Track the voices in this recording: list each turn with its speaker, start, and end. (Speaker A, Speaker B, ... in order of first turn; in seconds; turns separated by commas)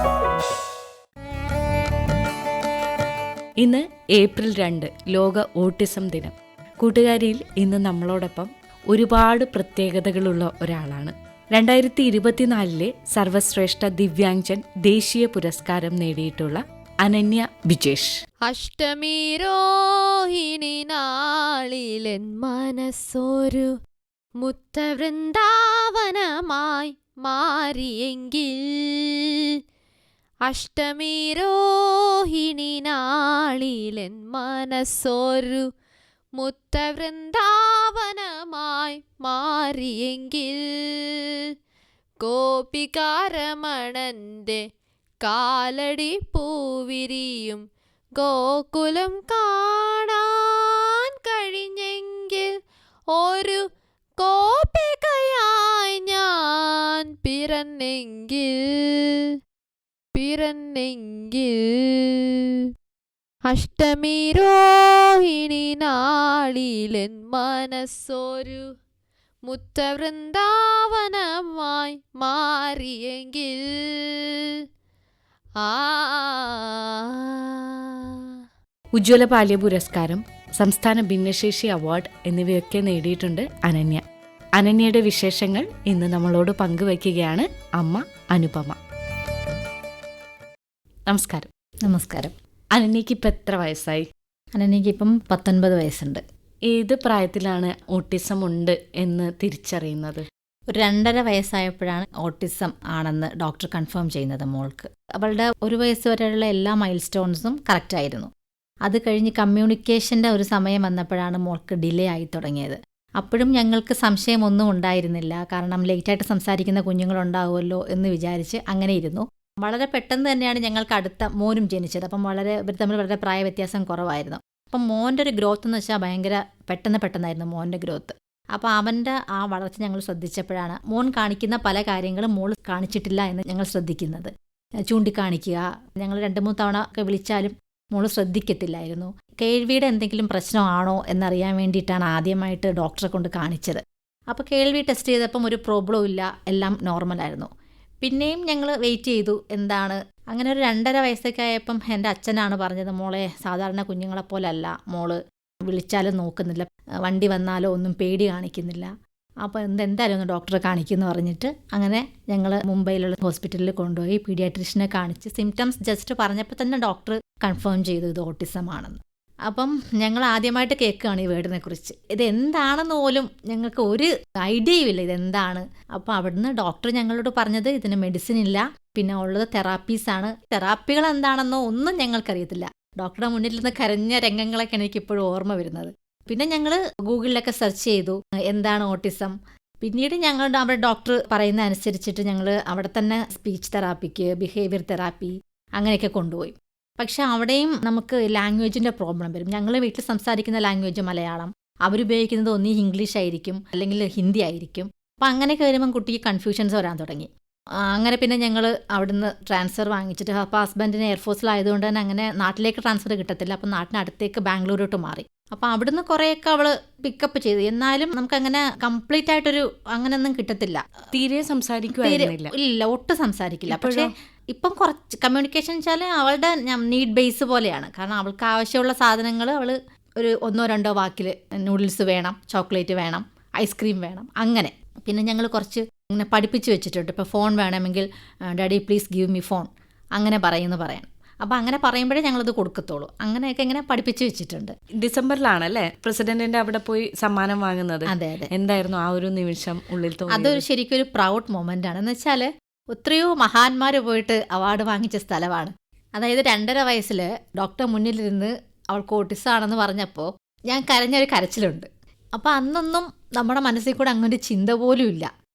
Speaker A: 3.6-18.2, Speaker B: 18.4-23.7, Speaker B: 24.4-29.5, Speaker B: 30.4-35.6, Speaker B: 36.4-41.5, Speaker B: 42.2-44.6, Speaker B: 45.2-47.6, Speaker B: 48.1-52.5, Speaker B: 53.1-53.6, Speaker B: 54.2-59.4, Speaker B: 60.1-62.7, Speaker B: 63.5-68.7, Speaker B: 69.5-74.5, Speaker B: 75.6-78.3, Speaker A: 78.9-84.0, Speaker A: 84.6-88.8, Speaker A: 91.1-91.5, Speaker C: 91.8-92.3, Speaker A: 92.7-94.0, Speaker C: 94.5-96.2, Speaker A: 96.7-100.2, Speaker C: 100.7-108.3, Speaker C: 108.8-134.3, Speaker C: 134.9-147.5, Speaker C: 148.0-158.9, Speaker C: 159.4-207.3, Speaker C: 207.8-220.9, Speaker A: 221.1-222.5, Speaker C: 222.0-244.7, Speaker A: 223.7-224.1, Speaker A: 245.0-250.6, Speaker C: 248.1-248.5, Speaker C: 250.3-265.3